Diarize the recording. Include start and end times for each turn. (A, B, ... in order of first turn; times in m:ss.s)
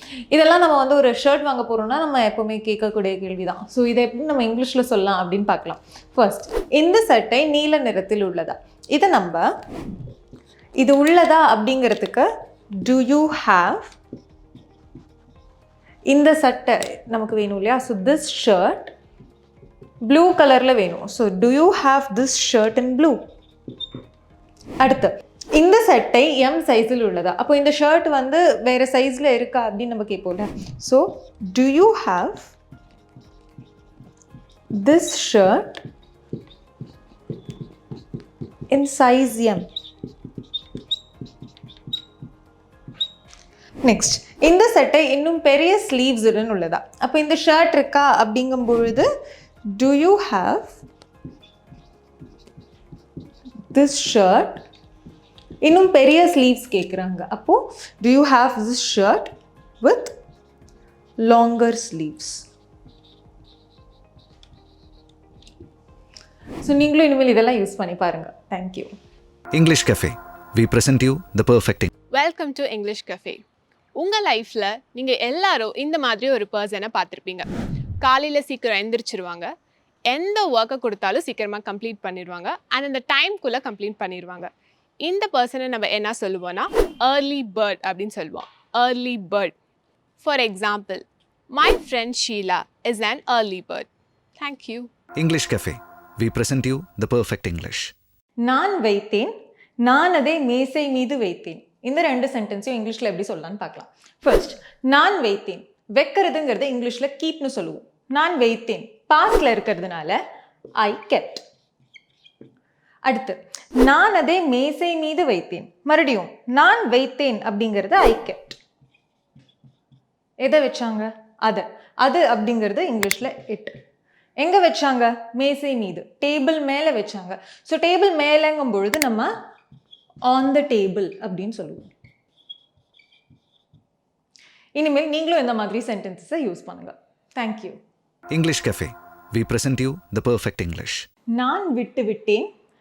0:00.3-0:09.5 A
0:10.8-0:12.3 A
0:12.8-0:14.0 A
0:16.1-0:18.9 A
0:20.0-0:23.2 A
0:24.8-0:32.5 A
0:34.8-0:35.8 A
0:38.7-0:39.7 A
0:43.8-0:49.1 A
0:49.7-0:50.8 A
0:53.7-0:54.6 A
0:55.6-0:59.3 A
0:59.8-1:00.1 A
1:01.2-1:02.5 A
1:06.6-1:08.9 A
1:09.5-1:11.9 B
1:12.1-1:13.4 C
1:14.0-1:17.5 C
1:18.0-1:19.5 C
1:20.1-1:29.5 C
1:30.2-1:34.9 C
1:35.2-1:37.9 B
1:38.4-1:50.2 A
1:50.8-1:51.4 A
1:53.0-1:58.6 A
2:00.4-2:03.7 A
2:04.4-2:09.3 A
2:10.2-2:11.9 A
2:14.8-2:17.8 A
2:18.3-2:21.1 B
2:21.3-2:22.5 A